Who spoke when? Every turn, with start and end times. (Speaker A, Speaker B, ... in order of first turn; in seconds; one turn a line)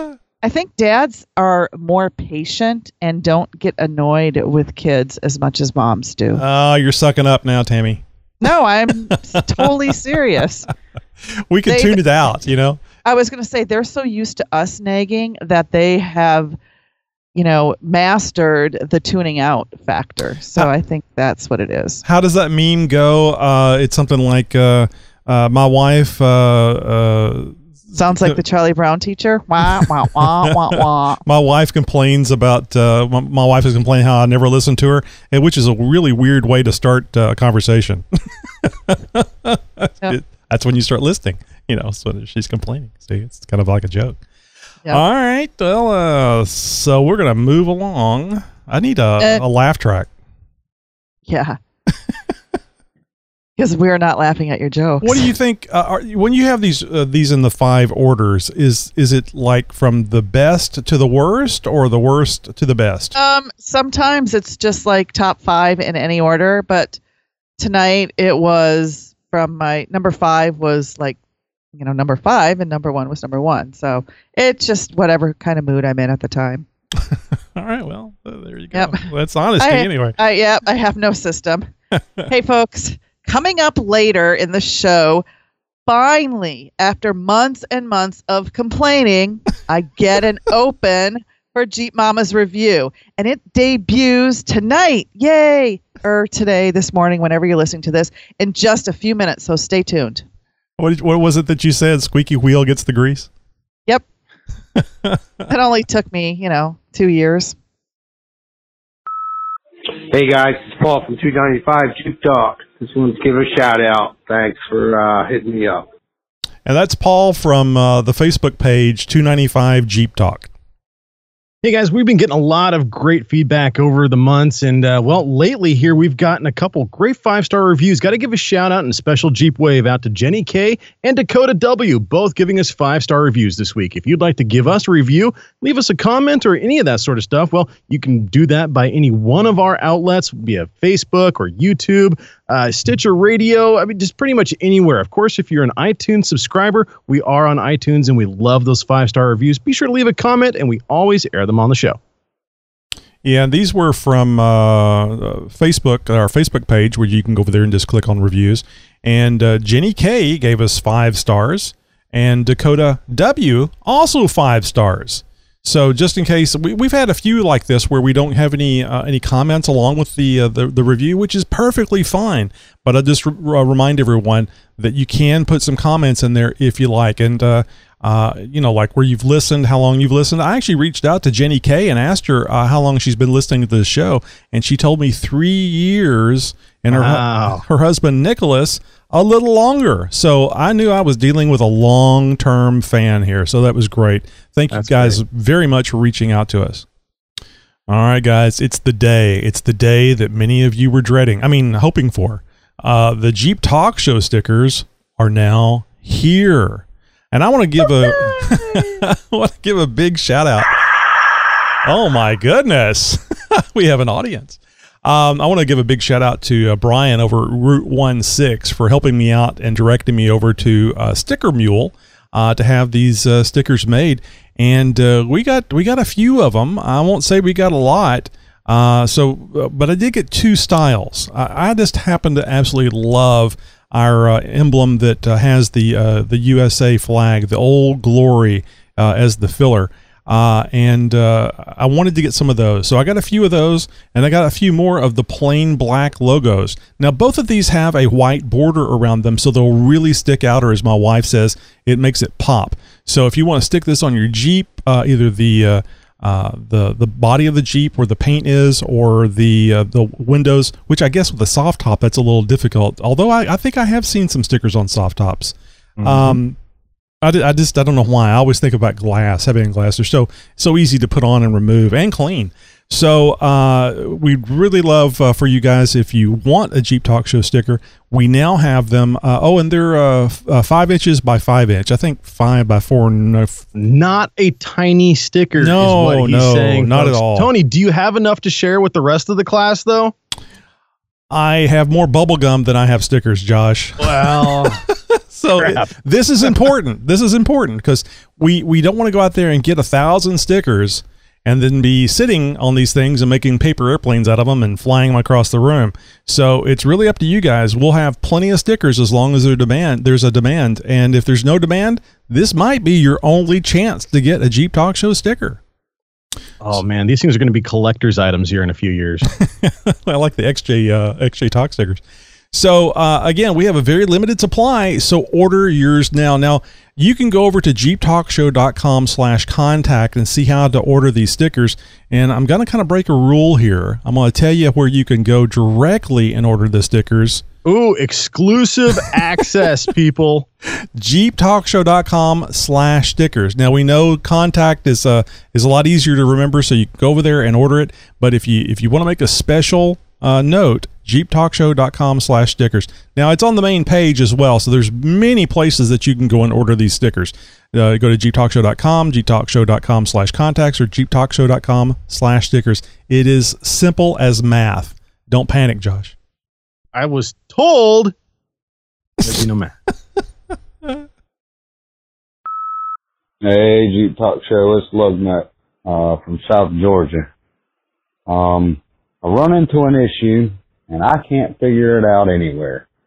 Speaker A: 0.4-6.4
Speaker B: 6.4-8.0
Speaker A: 8.4-10.7
Speaker B: 11.5-12.8
Speaker A: 11.7-12.0
Speaker A: 13.1-16.6
Speaker A: 17.3-22.0
Speaker B: 22.0-27.6
Speaker A: 27.9-31.2
Speaker B: 29.7-38.0
Speaker B: 38.6-44.2
Speaker B: 44.9-50.1
Speaker A: 51.3-51.6
Speaker A: 53.6-55.2
Speaker B: 55.0-63.1
Speaker A: 63.1-67.0
Speaker A: 67.6-71.2
Speaker A: 71.8-76.7
Speaker B: 77.6-80.2
Speaker A: 79.6-81.7
Speaker A: 82.3-85.2
Speaker A: 85.9-100.2
Speaker B: 100.8-103.3
Speaker A: 105.5-107.5
Speaker C: 110.1-115.8
Speaker B: 116.7-120.5
Speaker D: 121.6-152.0
Speaker B: 153.2-196.8
Speaker D: 186.9-187.6
Speaker D: 194.7-195.2
Speaker B: 197.9-210.8
Speaker B: 211.8-266.6
Speaker D: 266.0-266.4
Speaker B: 267.2-283.6
Speaker D: 283.8-290.1
Speaker B: 285.6-287.5
Speaker B: 291.3-315.6
Speaker D: 294.0-294.8
Speaker D: 295.6-295.9
Speaker D: 316.6-319.3
Speaker B: 319.4-337.4
Speaker D: 337.6-340.5
Speaker B: 341.0-366.1
Speaker D: 366.9-368.1
Speaker D: 369.2-369.7
Speaker E: 373.4-377.3
Speaker E: 378.3-382.9